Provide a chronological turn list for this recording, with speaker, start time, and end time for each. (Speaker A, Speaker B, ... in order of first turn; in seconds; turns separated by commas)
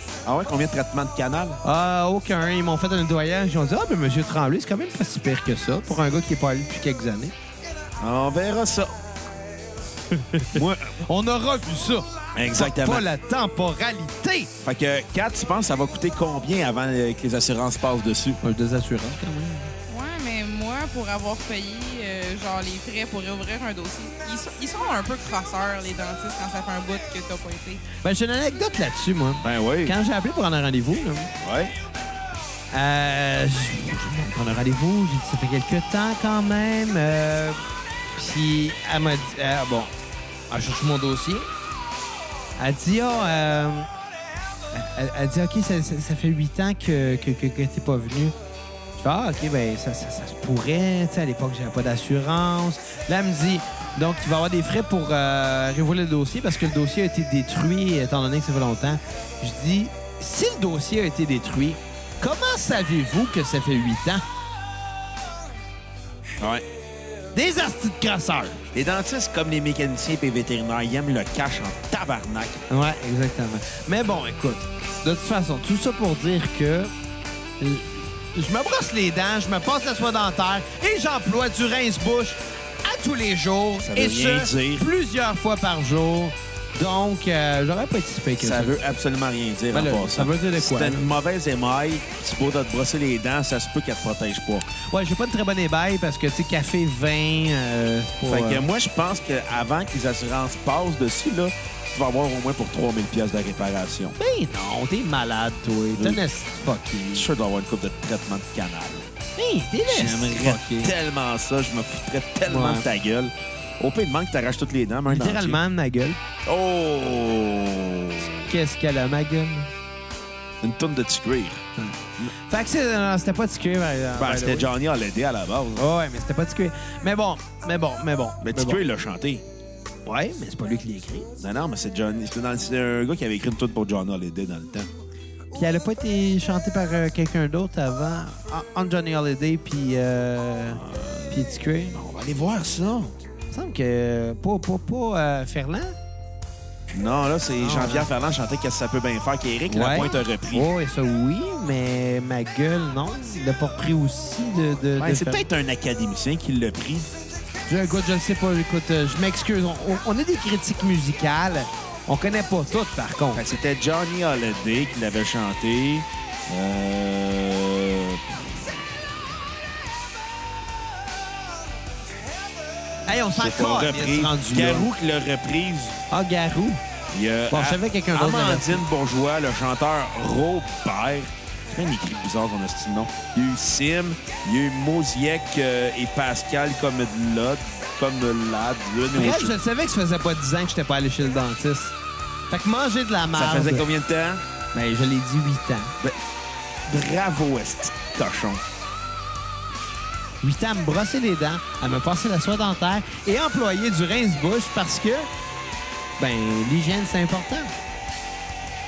Speaker A: 0.2-1.6, Speaker B: 1.6-7.3, Speaker A: 8.0-8.9, Speaker B: 10.1-14.5, Speaker A: 10.5-11.0, Speaker A: 12.3-13.1, Speaker A: 14.6-18.4, Speaker B: 18.4-19.7, Speaker C: 19.9-27.8, Speaker B: 28.0-31.3, Speaker A: 29.4-29.9, Speaker A: 31.4-31.7, Speaker B: 32.7-37.6, Speaker B: 38.1-39.9, Speaker B: 40.5-41.5, Speaker B: 42.6-43.9, Speaker B: 44.7-48.3, Speaker B: 49.0-64.2, Speaker A: 66.4-66.6, Speaker B: 67.3-68.6, Speaker A: 68.7-72.6, Speaker B: 72.7-76.9, Speaker B: 77.6-88.8, Speaker A: 83.8-84.8, Speaker A: 88.4-94.7, Speaker B: 89.7-91.1, Speaker B: 94.7-98.6, Speaker A: 98.3-104.2, Speaker B: 104.2-107.3, Speaker A: 106.0-106.2, Speaker A: 107.1-109.1, Speaker B: 109.3-110.9, Speaker A: 109.9-115.6, Speaker B: 112.5-112.9, Speaker B: 115.1-116.2, Speaker A: 116.5-118.4, Speaker B: 118.2-119.7, Speaker A: 120.6-121.7, Speaker B: 121.8-124.7, Speaker A: 124.2-125.8, Speaker B: 125.8-128.8, Speaker A: 128.4-129.4, Speaker B: 130.0-131.3, Speaker A: 131.4-134.9, Speaker B: 135.5-141.9, Speaker A: 140.7-141.4, Speaker A: 141.9-143.2, Speaker B: 143.5-145.9, Speaker A: 146.9-150.7, Speaker B: 147.6-148.1, Speaker B: 149.7-155.4, Speaker A: 155.0-157.1, Speaker B: 157.7-163.4, Speaker A: 163.3-168.6, Speaker B: 173.1-174.9, Speaker A: 173.1-176.0, Speaker B: 176.1-176.8, Speaker A: 177.1-189.6, Speaker B: 177.5-178.8, Speaker B: 189.1-191.9, Speaker B: 192.5-193.9, Speaker A: 193.3-194.4, Speaker B: 194.7-195.9, Speaker A: 196.9-198.6, Speaker B: 200.4-205.3, Speaker B: 206.2-207.7